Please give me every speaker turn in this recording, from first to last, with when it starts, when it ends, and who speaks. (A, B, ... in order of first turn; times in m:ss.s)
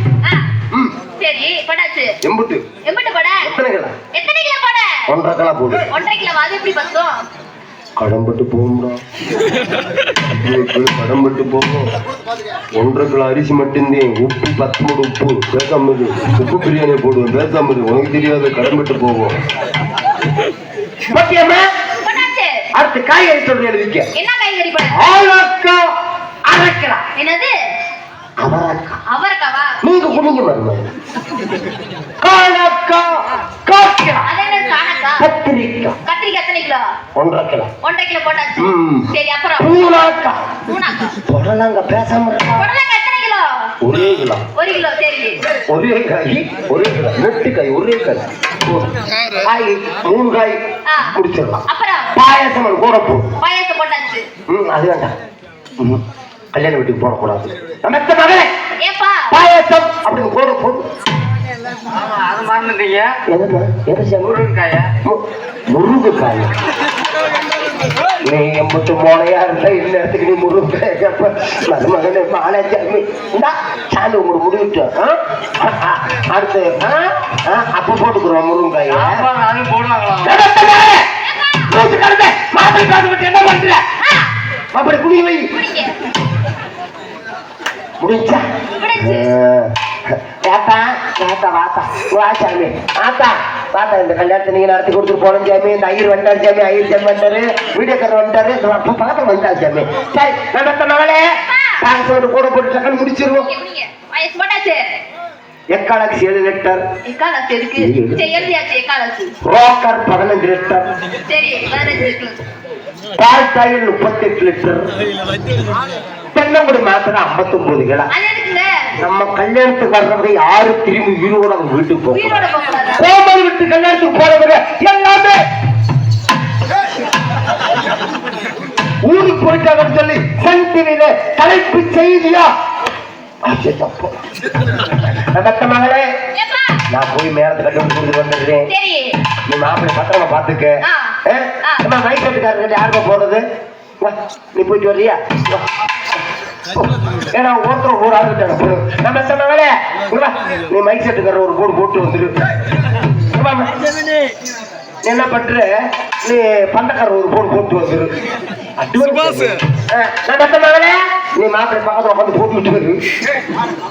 0:01.2-0:02.1 A
0:02.2-0:02.6 B
0:02.8-0:03.4 A
0:03.4-0:04.0 B
0:04.1-0:04.9 A
0:05.1-0:05.8 B
0:05.9-0:07.2 A
0:08.0-0:09.0 B
0:10.2-0:11.9 B
0:12.8-0:19.4 B
0:21.1-0:21.6 B
0:22.0-0:22.5 A
0:22.7-0:24.1 B
0:24.1-0:24.9 A
0:24.9-0:25.9 B
0:26.5-0:27.0 B
0:27.1-0:27.5 A
0:28.4-0:29.0 B
0:29.1-0:29.8 A
0:29.8-0:30.9 B
0:32.2-0:34.3 B
0:34.2-0:35.2 A
0:35.2-0:36.0 B
0:36.0-0:36.8 A
0:37.2-0:37.7 B
0:37.8-0:39.8 A
0:38.6-0:40.4 B
0:40.7-0:41.1 A
0:41.3-0:42.7 B
0:42.5-0:43.4 A
0:43.8-0:44.4 B
0:44.6-0:45.4 A
0:45.7-0:53.3 B
0:50.9-0:51.1 A
0:51.7-0:52.1 A
0:53.4-0:54.2 A
0:54.5-0:55.1 B
0:56.5-0:58.5 B
0:58.8-0:59.3 A
0:59.3-1:00.8 B
1:01.9-1:03.2 C
1:03.3-1:04.3 B
1:04.2-1:04.9 C
1:05.0-1:06.5 B
1:08.2-1:19.2 B
1:18.9-1:20.4 C
1:20.2-1:21.1 B
1:21.2-1:21.7 A
1:21.7-1:23.8 B
1:24.0-1:24.3 A
1:24.7-1:25.5 B
1:25.5-1:25.9 A
1:28.0-1:28.4 B
1:28.8-1:29.3 A
1:29.0-1:41.2 B
1:41.5-1:41.8 A
1:41.8-1:43.5 B
1:43.3-1:44.8 A
1:45.7-1:46.8 B
1:47.0-1:49.3 A
1:47.8-1:48.2 B
1:49.4-1:50.9 B
1:51.3-1:52.4 A
1:53.2-1:54.9 B
1:56.3-1:58.1 B
1:58.1-1:58.7 A
1:59.0-2:05.4 B
2:02.1-2:03.1 A
2:09.0-2:12.5 B
2:13.4-2:14.1 B
2:14.7-2:16.1 B
2:16.3-2:16.8 A
2:16.9-2:18.7 B
2:18.7-2:19.1 A
2:19.5-2:23.4 B
2:20.8-2:21.8 A
2:24.0-2:25.6 B
2:26.7-2:32.3 B
2:33.3-2:33.7 B
2:35.0-2:35.7 B
2:36.2-2:38.1 B
2:38.8-2:43.0 B